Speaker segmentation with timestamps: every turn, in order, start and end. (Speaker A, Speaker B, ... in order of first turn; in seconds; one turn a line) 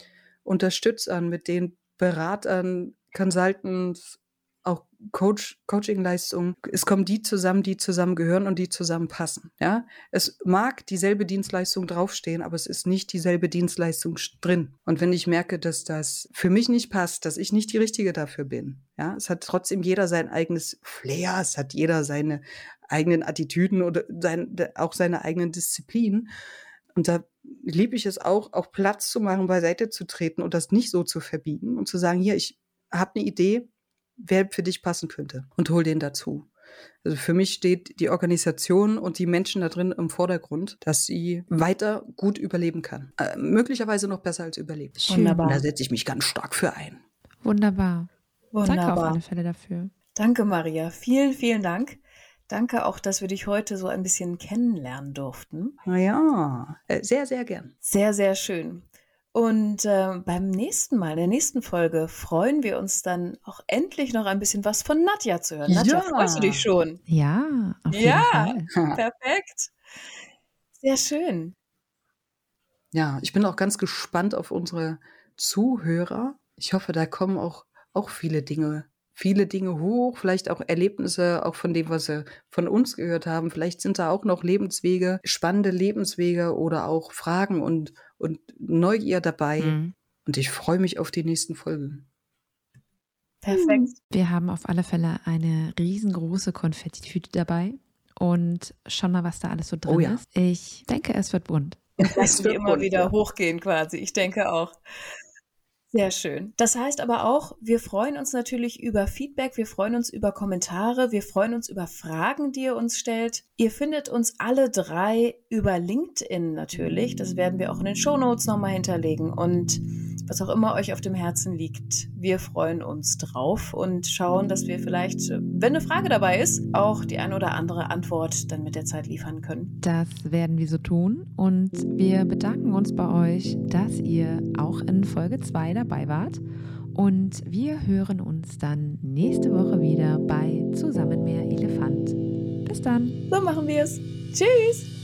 Speaker A: 0.4-26.3
Speaker A: 26.9-33.7
Speaker A: 34.2-36.5
Speaker A: 37.0-47.0
Speaker B: 45.1-45.4
Speaker C: 45.1-45.6
Speaker B: 47.4-48.1
Speaker C: 48.5-49.2
Speaker B: 48.6-49.9
Speaker C: 50.1-55.8
Speaker A: 55.8-57.7
Speaker C: 57.8-67.0
Speaker A: 65.7-66.7
Speaker B: 67.1-68.7
Speaker C: 67.9-69.7
Speaker A: 68.7-69.0
Speaker C: 70.8-71.5
Speaker A: 72.9-92.0
Speaker B: 89.6-89.9
Speaker C: 93.4-93.9
Speaker B: 94.1-101.8
Speaker A: 99.8-100.2
Speaker A: 102.0-103.1
Speaker C: 102.0-104.8
Speaker C: 105.9-129.7
Speaker B: 129.8-136.4
Speaker B: 136.9-143.2
Speaker C: 143.3-144.9